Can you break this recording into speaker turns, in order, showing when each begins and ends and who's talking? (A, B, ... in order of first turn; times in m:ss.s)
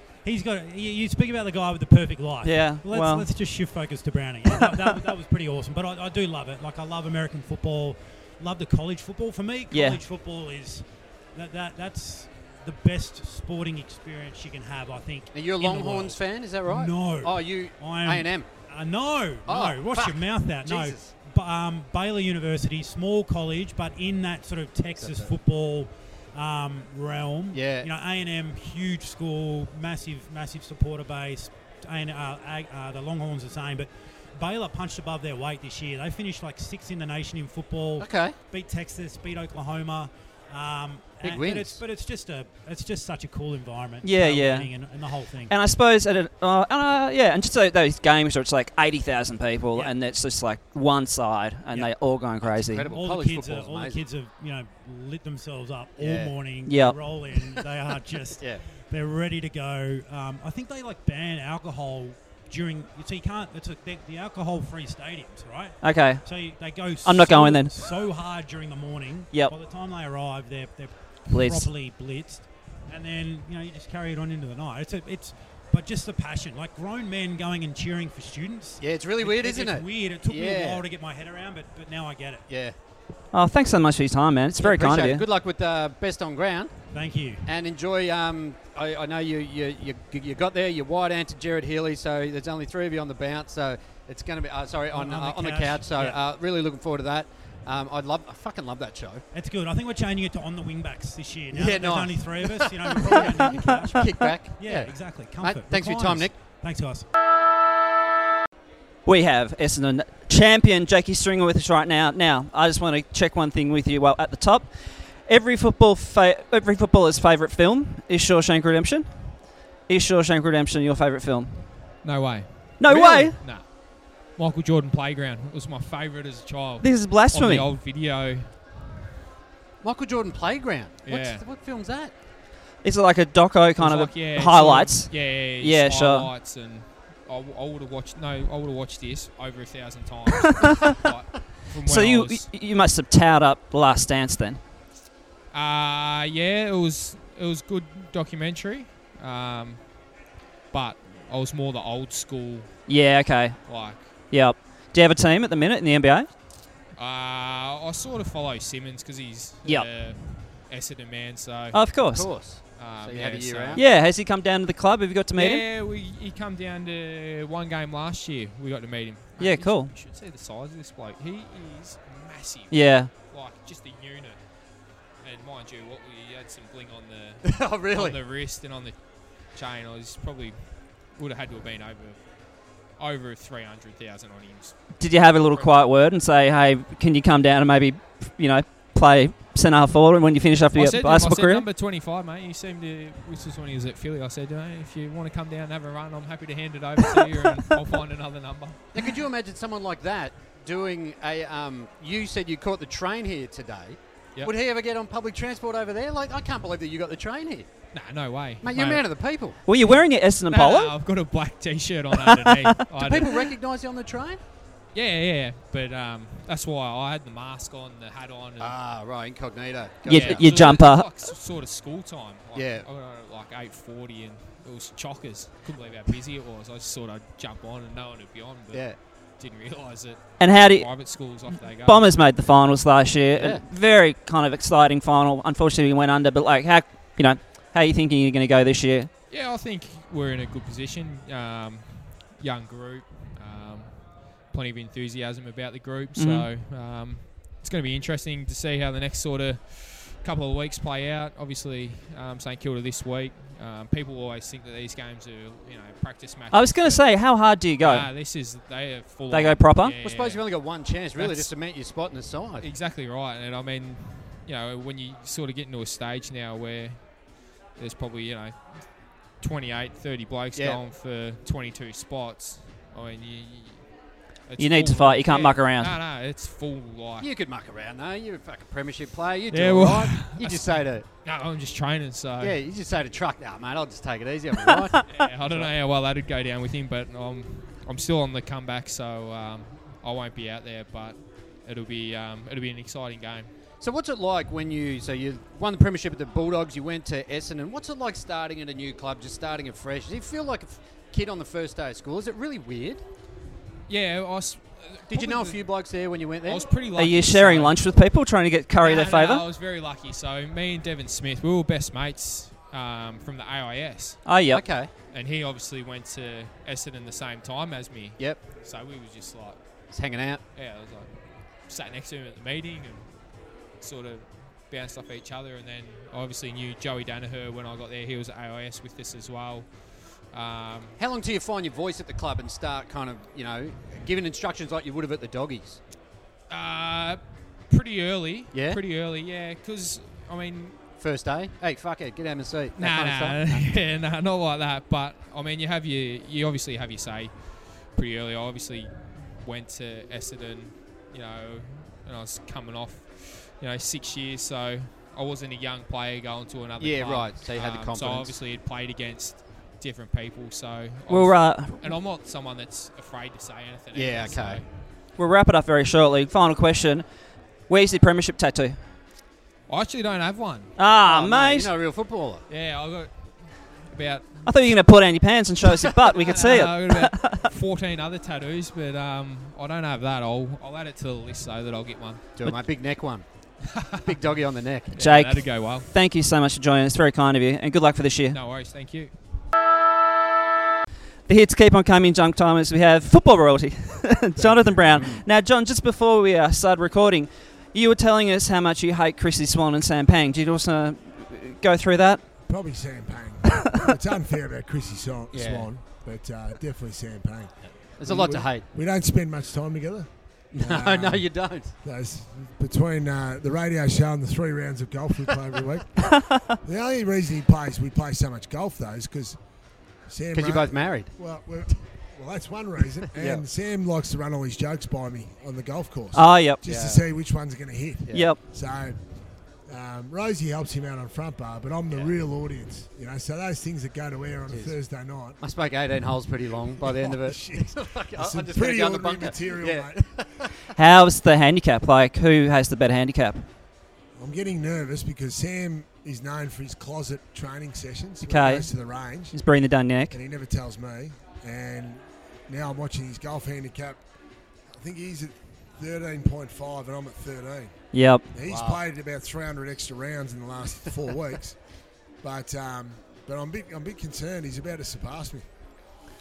0:00.2-0:45.5 A
0:02.4-0:03.3 B
0:09.7-0:10.0 B
0:15.3-0:18.5 C
0:19.5-0:21.1 C
0:25.0-0:25.3 C
0:27.5-0:27.9 C
0:38.0-0:38.4 C
0:41.2-0:41.8 C
0:44.0-0:44.7 B
0:45.5-0:52.9 B
0:52.4-0:54.0 C
0:52.9-1:22.4 A
0:56.0-0:56.4 C
0:56.7-0:57.0 B
1:05.8-1:06.4 B
1:07.0-1:07.7 B
1:11.3-1:11.7 B
1:18.8-1:20.8 C
1:22.5-1:22.8 C
1:23.3-1:25.2 B
1:24.6-1:26.9 C
1:26.9-1:27.5 A
1:27.4-1:39.2 C
1:34.9-1:36.2 A
1:39.3-1:47.1 A
1:41.5-1:46.4 C
1:49.1-2:01.9 B
2:02.0-2:08.5 D
2:02.8-2:03.4 B
2:06.8-2:07.7 B
2:09.8-2:12.1 C
2:11.0-2:11.4 D
2:12.8-2:16.3 B
2:13.8-2:22.5 D
2:21.8-2:24.6 B
2:25.5-2:29.9 D
2:30.7-2:32.9 D
2:32.9-2:36.3 B
2:33.6-2:34.1 D
2:37.0-2:42.0 D
2:41.7-2:42.3 B
2:42.1-2:43.8 C
2:42.6-2:43.9 D
2:43.8-2:45.6 B
2:45.4-2:54.4 D
2:49.4-2:49.9 B
2:52.7-2:53.1 B
2:55.2-3:02.2 D
2:57.4-2:58.2 C
3:02.9-3:04.8 D
3:05.0-3:11.7 B
3:05.4-3:05.8 D
3:10.7-3:19.1 D
3:18.9-3:27.9 C
3:27.9-3:29.1 D
3:28.6-3:29.6 C
3:29.7-3:30.9 B
3:29.9-3:33.5 D
3:32.2-3:32.8 B
3:32.9-3:34.4 C
3:34.9-3:38.8 D
3:38.6-3:40.5 C
3:40.1-3:41.1 B
3:40.1-3:52.1 D
3:42.6-3:42.9 C
3:48.7-3:49.0 C
3:50.4-3:59.1 B
3:53.4-3:53.6 C
3:59.3-4:20.6 D
4:06.2-4:06.5 B
4:16.5-4:18.1 B
4:19.3-4:20.0 B
4:20.0-4:22.7 C
4:21.2-4:21.5 D
4:22.6-4:27.2 D
4:27.8-4:33.9 D
4:30.6-4:30.8 C
4:34.5-4:37.3 D
4:34.6-4:36.0 B
4:37.2-4:41.1 C
4:39.5-4:42.6 D
4:42.4-4:45.7 C
4:45.0-4:53.5 D
4:53.8-5:03.0 C
5:03.9-5:05.6 D
5:05.1-5:06.7 C
5:06.4-5:07.8 D
5:07.0-5:09.4 B
5:08.8-5:14.3 D
5:14.2-5:14.6 B
5:14.5-5:14.9 C
5:15.1-5:19.6 D
5:18.2-5:18.4 C
5:19.9-5:20.4 C
5:20.5-5:23.2 D
5:23.8-5:31.0 D
5:31.0-5:35.8 C
5:36.5-5:40.8 D
5:38.5-5:38.8 C
5:41.0-5:43.7 C
5:42.8-6:04.7 D
5:56.8-5:58.4 C
6:01.1-6:01.9 B
6:03.9-6:04.6 C
6:05.2-6:07.0 B
6:07.7-6:08.8 B
6:09.7-6:10.8 D
6:10.8-6:11.7 B
6:11.0-6:12.4 C
6:12.5-6:14.8 D
6:14.4-6:17.5 B
6:16.2-6:22.3 D
6:22.4-6:23.2 C
6:23.7-6:24.1 D
6:24.0-6:25.0 C
6:25.0-6:25.9 D
6:25.0-6:28.4 B
6:28.3-6:29.1 D
6:31.3-6:42.2 B
6:34.4-6:34.8 E
6:34.9-6:35.2 C
6:42.5-6:51.3 E
6:45.3-6:45.7 C
6:48.0-6:48.7 C
6:50.5-6:51.8 C
6:51.8-6:59.4 E
7:00.1-7:09.0 E
7:00.3-7:01.2 C
7:03.1-7:03.4 C
7:06.1-7:06.6 B
7:06.6-7:07.0 C
7:08.0-7:08.4 C
7:08.1-7:08.4 B
7:09.7-7:15.4 E
7:14.5-7:14.8 C
7:15.4-7:20.3 C
7:16.8-7:20.0 E
7:20.8-7:23.4 B
7:24.2-7:29.4 E
7:28.2-7:28.7 B
7:29.3-7:30.2 B
7:30.1-7:34.0 E
7:34.7-7:41.6 E
7:37.9-7:38.3 B
7:38.4-7:38.8 C
7:42.2-7:45.4 E